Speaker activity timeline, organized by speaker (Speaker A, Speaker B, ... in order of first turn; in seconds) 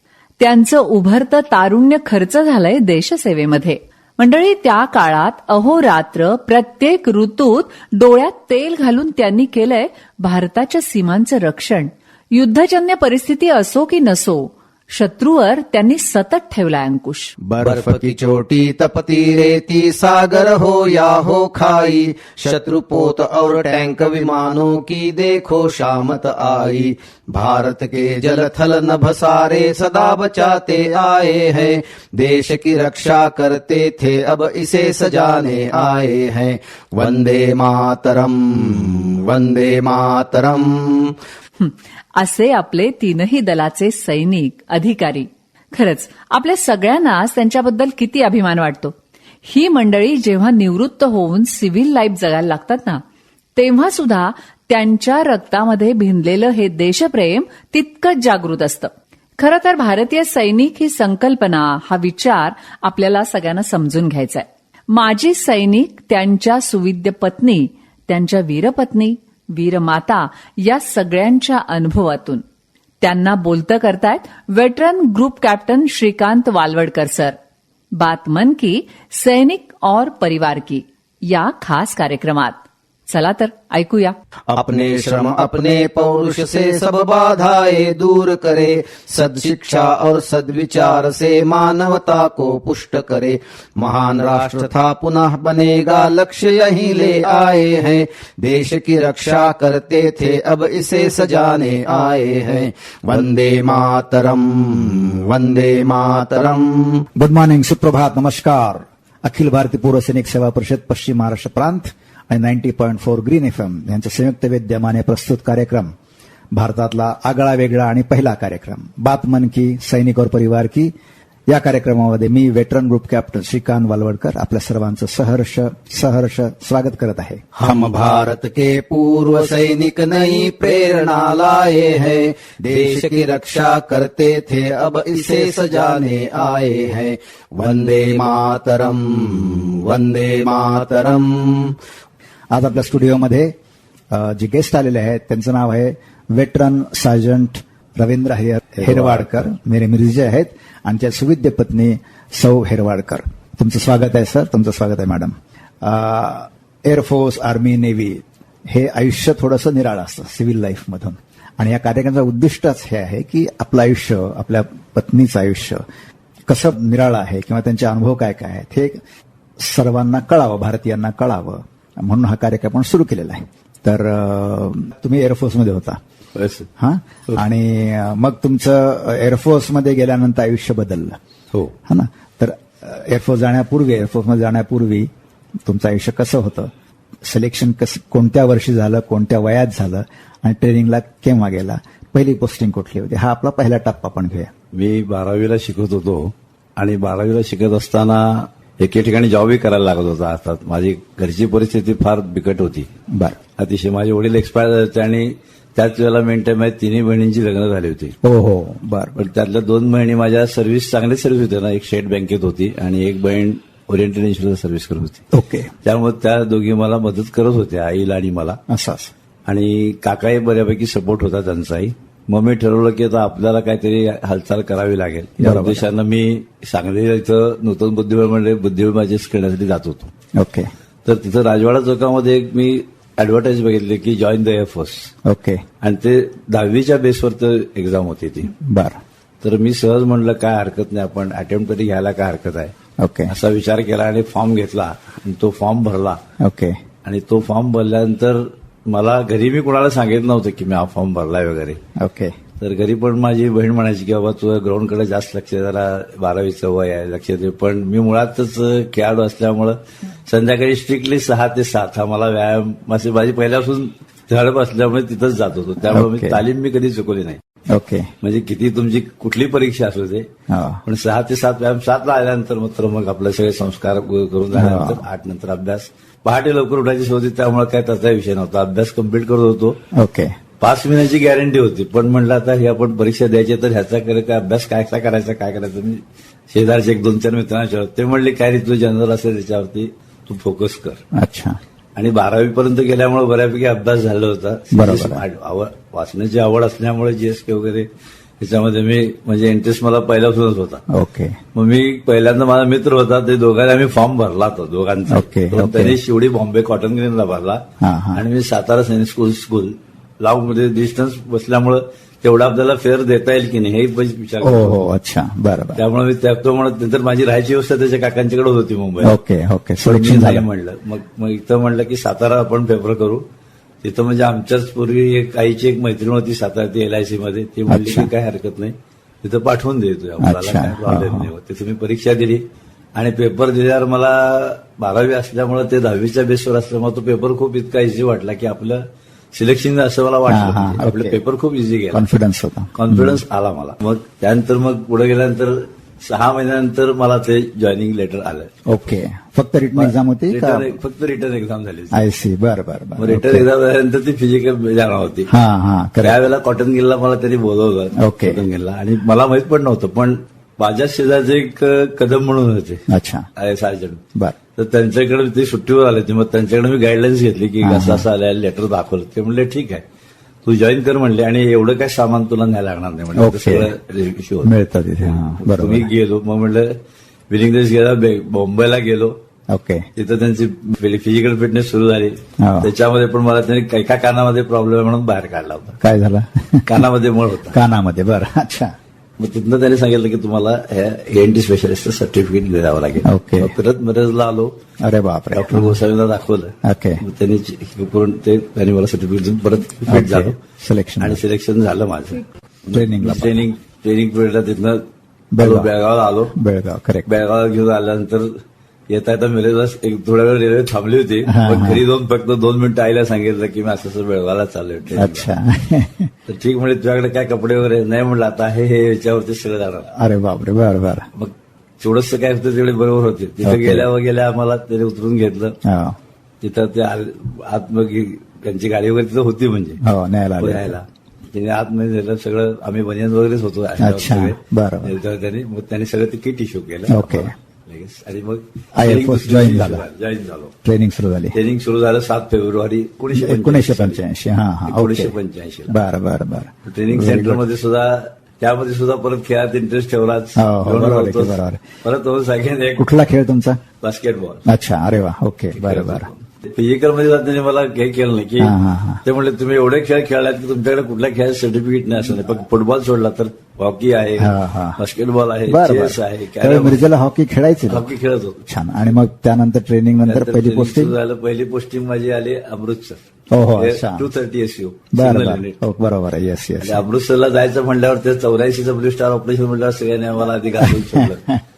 Speaker A: 0.4-17.3, 41.6-53.0, 53.5-72.4, 73.0-77.4, 77.9-84.2
Speaker B: 17.4-41.1, 84.5-107.0, 127.6-141.8
Speaker C: 107.2-115.9, 116.5-120.9, 121.5-127.4, 142.5-143.5, 144.1-165.8, 166.5-169.0, 169.6-176.0, 176.8-181.2, 181.9-185.1, 185.6-186.7, 187.2-194.5, 203.1-203.4, 208.2-209.2, 215.3-215.7, 218.7-219.1, 225.4-225.8, 230.3-230.7, 235.2-235.6, 238.6-239.0, 243.0-243.3, 246.4-246.8, 251.9-252.3, 265.8-266.4, 267.7-268.1, 270.5-270.8, 274.5-275.0, 279.9-280.4, 291.1-291.6, 294.7-295.2, 300.9-301.4, 305.1-306.0, 307.8-308.2, 314.4-315.8, 319.0-320.4, 327.7-328.1, 330.2-331.3, 340.3-341.2, 341.9-343.2, 348.7-350.8, 351.9-353.4, 355.3-356.2, 358.0-358.4, 362.9-363.2, 367.6-368.1, 373.1-373.7, 374.4-375.9, 379.5-379.9, 382.4-382.7, 385.8-386.8, 387.5-388.7, 393.0-393.5, 394.8-395.8, 396.6-397.0, 399.9-401.2, 402.7-403.5, 405.3-405.7, 406.3-407.1, 411.3-411.8, 414.9-416.1, 419.9-421.1, 423.4-423.9, 425.6-426.0, 429.8-430.7, 433.8-435.0, 436.9-437.3, 438.8-439.8, 440.6-441.4, 443.1-445.1, 445.7-447.4, 450.4-451.6, 452.8-453.6, 454.5-456.1, 458.4-459.0, 464.2-464.8, 465.5-467.9, 468.4-470.9, 473.3-474.1, 474.9-476.8, 480.6-481.4
Speaker D: 148.8-149.2, 176.3-176.7, 194.7-202.9, 203.6-208.2, 209.2-215.2, 215.8-218.6, 219.5-230.1, 231.0-235.1, 235.8-238.5, 239.4-242.7, 243.3-246.2, 247.0-251.8, 252.6-267.4, 268.2-270.3, 270.9-279.8, 280.6-291.0, 292.0-297.9, 298.4-300.8, 301.5-314.9, 315.8-319.1, 319.8-323.2, 323.8-332.4, 332.9-338.8, 339.3-342.0, 342.7-348.6, 349.8-352.0, 353.0-355.3, 356.0-362.8, 363.4-364.0, 364.6-369.8, 370.4-376.7, 377.3-379.1, 379.9-385.8, 386.6-387.6, 389.2-394.5, 395.3-400.4, 401.0-404.8, 405.4-406.3, 407.1-415.3, 416.3-419.9, 421.1-425.6, 426.4-429.8, 430.4-440.5, 441.3-444.0, 444.7-445.8, 446.6-452.9, 453.8-454.4, 455.6-466.8, 467.7-468.4, 470.0-473.0, 473.6-475.6, 476.6-481.3